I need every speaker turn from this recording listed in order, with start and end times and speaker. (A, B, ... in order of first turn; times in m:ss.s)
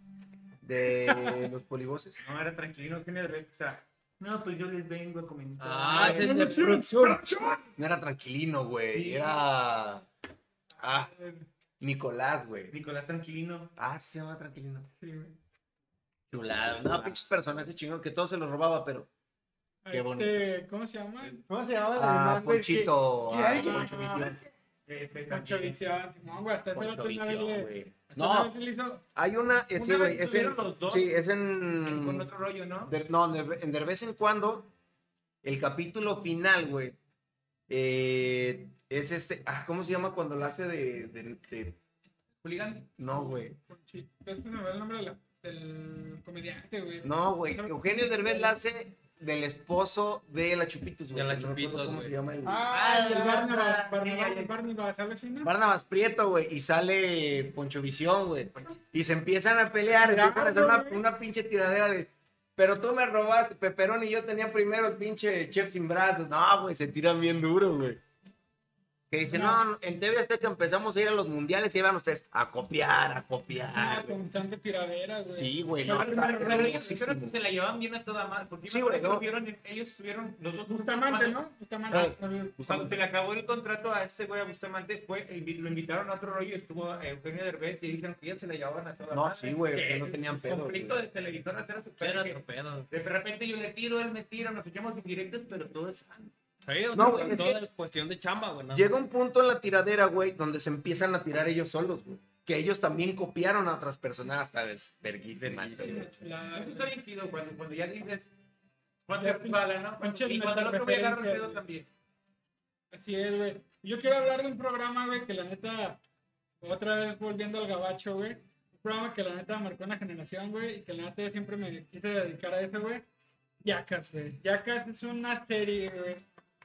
0:00.6-0:02.2 A
0:01.0-0:01.4 B
0:02.2-0:07.2 C
0:05.6-0:07.2 D
0:05.9-0:07.5 B
0:07.8-0:10.1 A
0:08.9-0:09.3 C
0:10.8-0:11.5 B
0:10.8-0:11.1 A
0:11.8-0:12.8 A
0:12.7-0:13.7 C
0:13.8-0:14.9 A
0:15.0-0:15.4 B
0:16.3-0:19.1 A
0:16.3-0:17.2 D
0:19.8-0:21.4 B
0:19.9-0:20.6 A
0:21.5-0:24.3 E
0:21.9-0:24.4 A
0:23.5-0:24.3 B
0:24.8-0:25.8 C
0:25.3-0:29.0 B
0:26.7-0:27.9 D
0:28.1-0:28.5 A
0:29.1-0:32.3 A
0:29.7-0:31.2 C
0:31.8-0:32.9 C
0:32.9-0:34.7 A
0:35.4-0:37.0 A
0:37.7-0:41.8 A
0:42.4-0:42.9 C
0:43.0-0:43.6 A
0:43.1-0:48.5 B
0:47.0-0:52.6 A
0:51.1-0:52.2 D
0:52.4-0:53.4 E
0:52.7-0:54.5 C
0:52.7-0:55.5 B
0:55.4-1:08.0 A
0:59.9-1:01.0 B
1:09.1-1:14.2 A
1:09.3-1:09.6 B
1:13.7-1:16.8 B
1:15.3-1:17.4 A
1:15.8-1:21.4 C
1:18.7-1:19.2 A
1:20.7-1:22.6 B
1:21.9-1:23.0 A
1:22.6-1:36.3 C
1:29.1-1:31.0 A
1:32.0-1:32.9 D
1:36.6-1:39.0 D
1:36.9-1:37.6 A
1:38.7-1:46.1 A
1:45.4-1:48.3 C
1:45.8-1:46.9 B
1:49.1-1:51.9 C
1:49.2-1:51.6 B
1:52.9-1:56.0 B
1:56.6-2:03.0 B
2:03.6-2:06.2 B